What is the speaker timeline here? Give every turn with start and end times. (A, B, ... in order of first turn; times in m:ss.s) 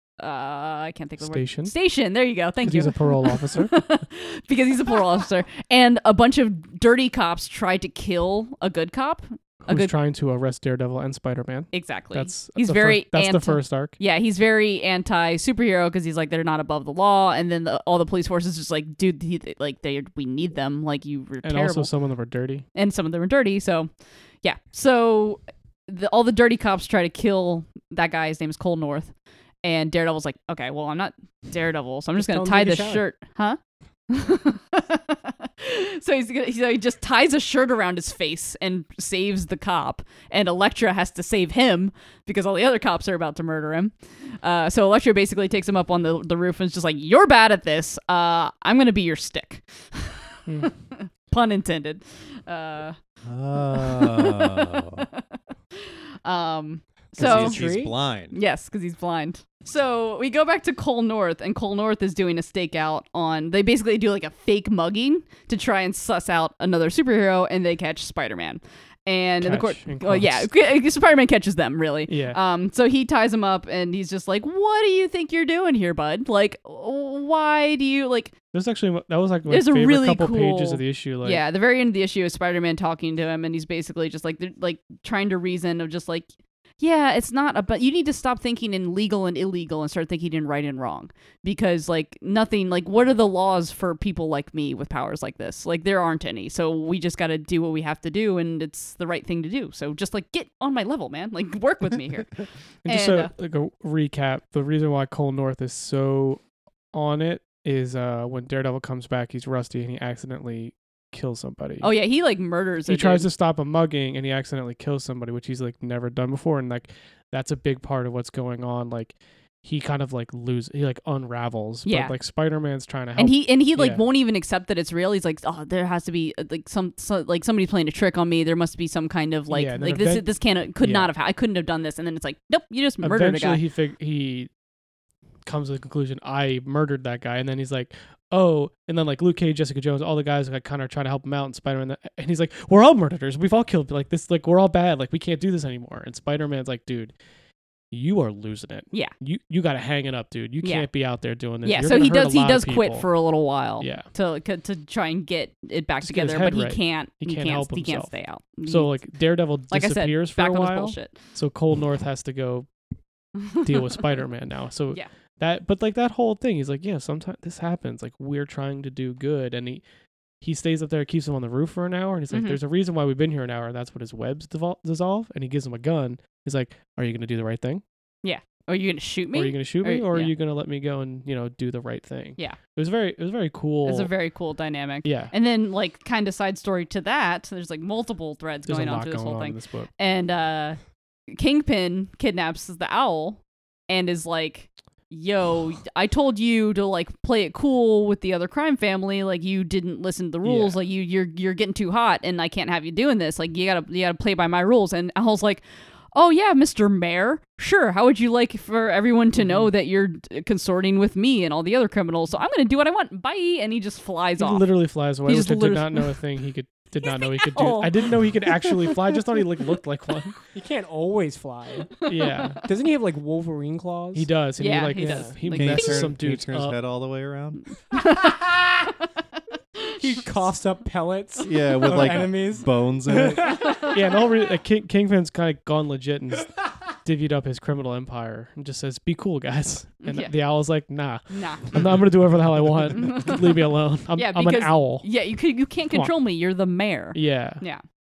0:00.2-0:09.9 A
0:01.2-0:01.7 B
0:02.6-0:03.7 B
0:09.7-0:14.0 B
0:11.7-0:21.9 A
0:21.4-0:22.7 B
0:22.8-0:23.9 A
0:24.4-0:29.1 A
0:29.6-0:33.6 A
0:32.2-0:33.0 C
0:34.1-0:50.4 A
0:50.9-0:53.0 A
0:53.2-0:55.1 D
0:53.7-0:55.2 A
0:55.8-0:57.6 A
0:57.2-0:58.4 D
0:57.2-0:57.9 C
0:58.3-1:18.4 A
1:09.4-1:10.5 B
1:12.1-1:12.4 B
1:18.5-1:21.4 B
1:19.5-1:26.3 A
1:26.8-1:43.3 A
1:42.8-1:46.4 B
1:46.9-1:51.9 B
1:51.8-1:53.3 A
1:52.9-2:04.0 B
2:01.9-2:02.2 A
2:03.2-2:13.6 A
2:09.5-2:10.3 B
2:10.8-2:11.1 B
2:13.0-2:14.5 B
2:15.4-2:27.1 B
2:27.9-2:33.1 B
2:30.6-2:30.9 A
2:31.6-2:39.0 A
2:33.8-2:34.1 B
2:36.0-2:38.1 B
2:38.7-2:42.7 B
2:39.7-2:41.2 A
2:43.4-2:43.7 A
2:43.6-2:49.8 B
2:50.4-2:57.8 B
2:52.3-2:52.6 A
2:58.2-3:00.3 A
2:59.3-3:04.1 B
3:03.8-3:10.8 A
3:05.0-3:05.3 B
3:08.7-3:09.9 B
3:11.3-3:34.7 A
3:20.4-3:20.8 B
3:29.4-3:29.7 B
3:34.4-3:40.4 B
3:35.2-3:36.2 A
3:37.0-3:39.0 A
3:40.5-3:41.9 C
3:42.0-3:42.6 A
3:42.1-3:42.6 B
3:42.6-3:44.3 C
3:44.2-3:46.8 B
3:44.6-3:46.1 A
3:45.0-3:45.4 C
3:45.5-3:47.6 D
3:47.9-3:49.0 A
3:49.8-3:50.2 A
3:50.0-3:53.8 C
3:51.4-3:53.8 D
3:53.9-4:05.0 B
4:00.0-4:00.3 A
4:01.3-4:02.0 A
4:03.0-4:03.6 A
4:04.2-4:07.8 A
4:07.1-4:07.6 B